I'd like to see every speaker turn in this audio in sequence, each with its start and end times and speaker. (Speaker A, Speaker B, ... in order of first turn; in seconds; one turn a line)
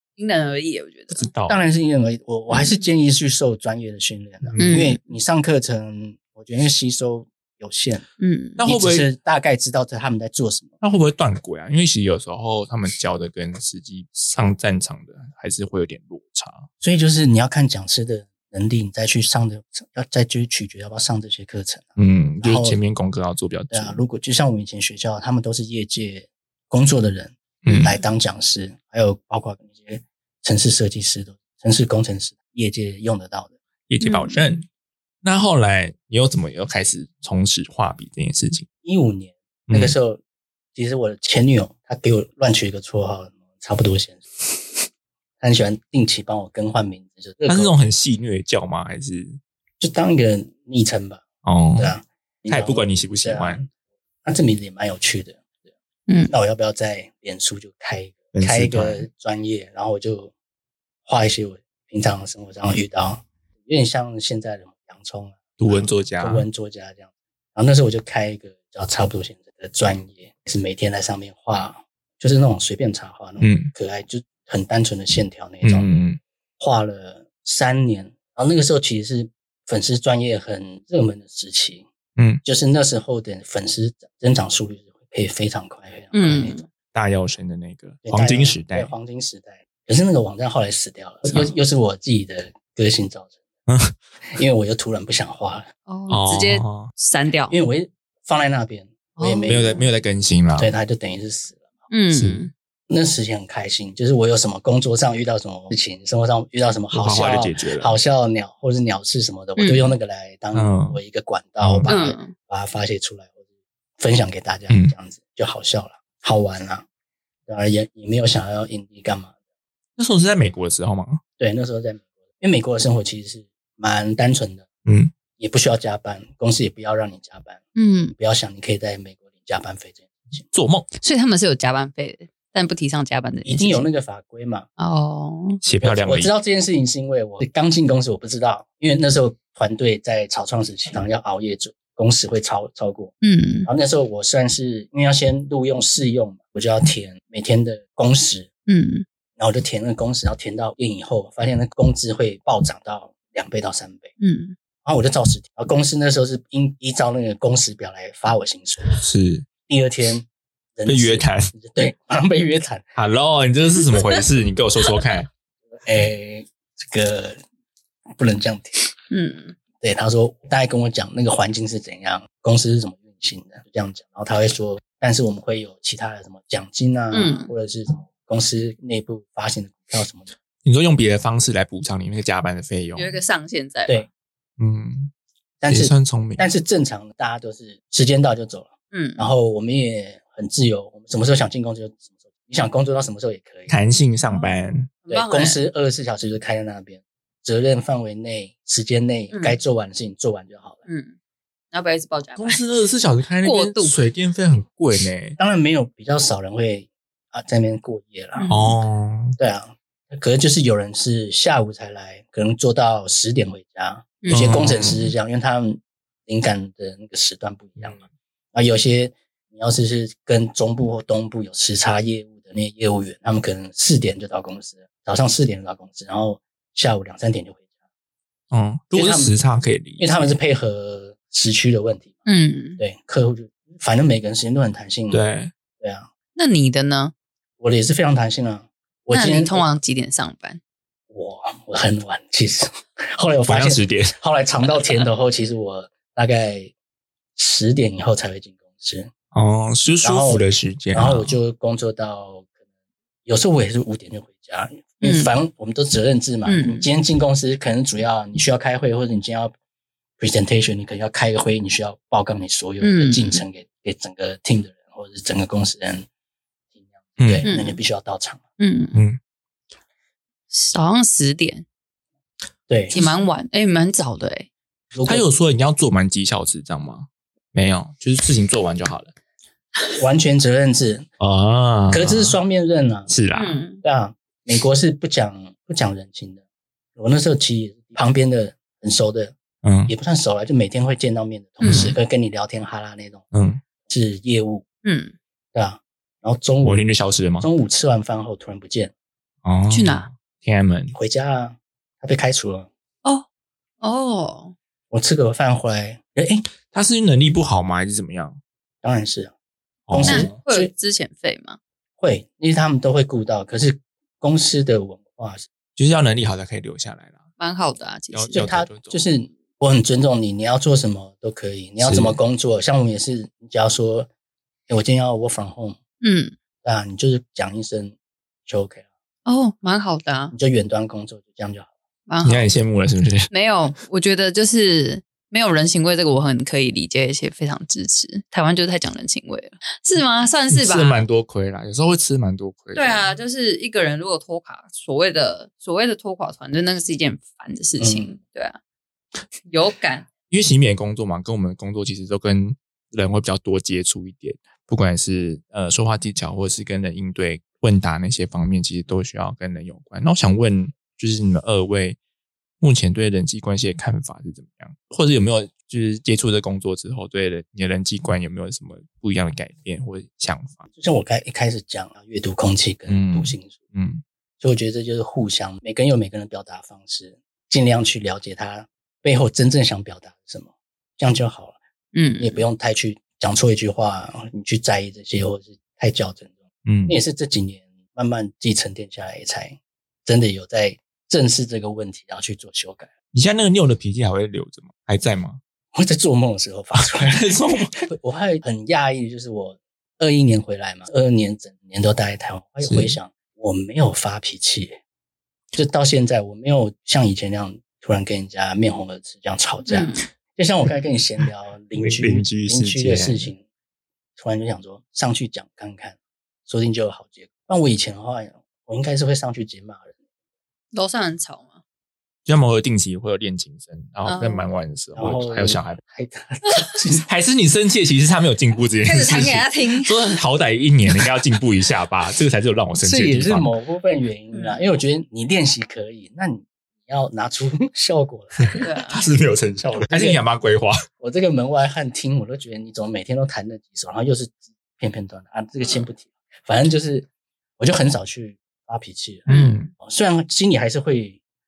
Speaker A: 0.2-1.3
Speaker B: 1.1-1.6
Speaker C: 1.5-8.1
Speaker A: 2.5-2.8
Speaker B: 4.4-4.9
Speaker A: 4.6-5.0
Speaker A: 8.2-8.6
Speaker B: 8.6-9.1
Speaker C: 8.6-10.7
Speaker B: 10.8-16.7
Speaker C: 16.8-22.8
Speaker B: 22.0-24.0
Speaker C: 23.7-33.5
Speaker B: 27.6-27.9
Speaker A: 27.7-28.0
Speaker B: 33.9-34.7
Speaker A: 34.0-34.4
Speaker B: 35.2-38.7
Speaker C: 38.8-40.2
Speaker B: 39.7-40.0
Speaker C: 40.8-44.2
Speaker C: 45.4-47.8
Speaker B: 47.5-49.4
Speaker C: 49.8-51.2
Speaker B: 51.4-52.0
Speaker C: 51.8-53.6
Speaker B: 52.5-53.6
Speaker C: 54.2-55.4
Speaker C: 56.3-60.3
Speaker B: 58.3-59.1
Speaker C: 61.0-75.9
Speaker B: 65.6-66.5
Speaker B: 73.4-73.7
Speaker B: 75.6-76.2
Speaker C: 76.6-81.9
Speaker B: 82.2-82.4
Speaker C: 82.4-86.6
Speaker A: 86.1-86.7
Speaker B: 86.9-88.9
Speaker C: 88.0-93.3
Speaker B: 91.3-91.5
Speaker B: 93.7-94.0
Speaker C: 94.3-95.7
Speaker A: 95.9-97.5
Speaker B: 96.1-96.9
Speaker C: 97.5-99.8
Speaker A: 99.2-99.9
Speaker B: 99.5-100.7
Speaker C: 100.6-101.7
Speaker A: 101.9-102.5
Speaker B: 102.1-102.4
Speaker C: 102.9-113.3
Speaker B: 106.9-108.0
Speaker A: 109.6-110.0
Speaker B: 110.5-111.0
Speaker B: 111.6-111.9
Speaker A: 111.9-112.3
Speaker C: 114.0-116.8
Speaker C: 117.5-119.3
Speaker B: 120.0-121.2
Speaker C: 121.4-124.7
Speaker B: 124.9-125.1
Speaker C: 125.4-130.5
Speaker A: 127.8-128.2
Speaker B: 130.5-130.9
Speaker A: 131.0-133.9
Speaker C: 133.4-134.7
Speaker A: 134.8-135.6
Speaker B: 135.6-136.3
Speaker C: 135.8-143.1
Speaker A: 143.2-143.7
Speaker C: 143.7-148.5
Speaker A: 148.7-149.1
Speaker C: 149.4-154.1
Speaker A: 154.2-154.6
Speaker C: 154.8-158.9
Speaker B: 158.9-159.5
Speaker C: 159.7-162.8
Speaker B: 160.9-161.5
Speaker B: 163.0-165.3
Speaker C: 165.8-167.4
Speaker C: 168.2-168.9
Speaker A: 169.1-169.6
Speaker C: 169.8-180.3
Speaker A: 177.1-177.5
Speaker B: 180.6-183.2
Speaker A: 183.0-184.1
Speaker B: 184.6-185.1
Speaker C: 185.6-193.7
Speaker B: 185.7-186.4
Speaker A: 188.9-189.3
Speaker B: 193.7-194.9
Speaker A: 194.3-195.6
Speaker C: 195.1-200.8
Speaker A: 199.3-199.6
Speaker A: 200.9-201.1
Speaker A: 201.7-202.6
Speaker B: 202.4-205.4
Speaker A: 203.4-203.9
Speaker C: 205.4-208.5
Speaker A: 208.3-208.8
Speaker B: 208.5-209.4
Speaker C: 209.4-218.0
Speaker A: 214.2-214.6
Speaker B: 214.3-215.1
Speaker B: 217.8-218.1
Speaker C: 218.5-227.6
Speaker B: 228.5-230.3
Speaker C: 228.9-229.3
Speaker C: 230.0-232.1
Speaker A: 232.3-232.8
Speaker C: 232.8-235.2
Speaker B: 235.1-235.5
Speaker C: 235.8-236.1
Speaker A: 236.4-237.1
Speaker C: 237.6-239.7
Speaker A: 239.1-240.6
Speaker C: 241.1-246.7
Speaker B: 243.5-244.2
Speaker A: 244.7-245.1
Speaker C: 247.4-249.1
Speaker B: 249.3-251.4
Speaker C: 250.0-252.5
Speaker C: 253.2-259.5
Speaker A: 255.0-255.3
Speaker A: 256.5-256.9
Speaker C: 260.2-266.1
Speaker A: 262.8-263.4
Speaker C: 267.1-268.4
Speaker B: 267.2-267.5
Speaker A: 267.4-267.8
Speaker A: 268.6-269.0
Speaker A: 270.5-271.6
Speaker C: 272.7-273.0
Speaker A: 272.9-274.5
Speaker C: 274.9-275.2
Speaker B: 275.1-279.1
Speaker C: 280.0-281.1
Speaker B: 281.2-282.4
Speaker C: 281.9-283.1
Speaker B: 283.1-283.6
Speaker A: 283.4-283.8
Speaker C: 283.8-286.4
Speaker C: 287.0-289.4
Speaker B: 289.6-289.9
Speaker C: 289.9-293.2
Speaker A: 291.6-291.9
Speaker B: 291.6-292.0
Speaker B: 293.3-293.6
Speaker C: 293.9-294.6
Speaker A: 294.8-295.1
Speaker C: 295.5-296.8
Speaker B: 296.6-297.5
Speaker C: 297.4-298.9
Speaker B: 299.4-300.9
Speaker A: 299.7-300.1
Speaker C: 300.9-302.7
Speaker A: 303.8-304.6
Speaker C: 304.9-306.4
Speaker B: 306.7-308.4
Speaker C: 308.8-309.3
Speaker B: 309.9-310.4
Speaker C: 309.9-310.7
Speaker A: 310.1-311.6
Speaker C: 312.0-315.5
Speaker B: 315.8-317.2
Speaker A: 317.4-318.4
Speaker B: 318.1-319.0
Speaker C: 318.3-324.1
Speaker B: 321.8-322.2
Speaker C: 324.7-325.8
Speaker A: 326.0-326.4
Speaker C: 326.6-328.9
Speaker A: 329.3-330.4
Speaker C: 330.3-331.7
Speaker A: 332.1-332.5
Speaker B: 332.2-333.3
Speaker A: 333.3-341.0
Speaker B: 340.5-343.2
Speaker A: 342.8-348.6
Speaker C: 347.8-348.1
Speaker A: 349.4-350.1
Speaker B: 350.3-362.0
Speaker B: 362.6-370.7
Speaker C: 370.7-373.6
Speaker B: 372.9-374.0
Speaker C: 374.4-381.6
Speaker A: 381.9-382.4
Speaker C: 382.2-392.9
Speaker B: 386.6-387.0
Speaker B: 393.1-395.4
Speaker C: 395.7-404.8
Speaker B: 396.9-397.7
Speaker B: 402.6-403.0
Speaker C: 405.5-413.4
Speaker A: 409.7-410.1
Speaker B: 411.8-413.3
Speaker C: 414.2-419.9
Speaker A: 420.7-421.6
Speaker B: 422.3-425.8
Speaker A: 424.1-424.5
Speaker C: 425.0-427.1
Speaker B: 427.1-433.5
Speaker A: 428.8-430.2
Speaker C: 432.8-438.6
Speaker A: 434.3-434.6
Speaker A: 438.6-439.1
Speaker B: 438.9-440.8
Speaker C: 439.7-440.2
Speaker C: 441.0-447.1
Speaker C: 447.6-451.2
Speaker A: 449.3-449.6
Speaker B: 449.3-449.7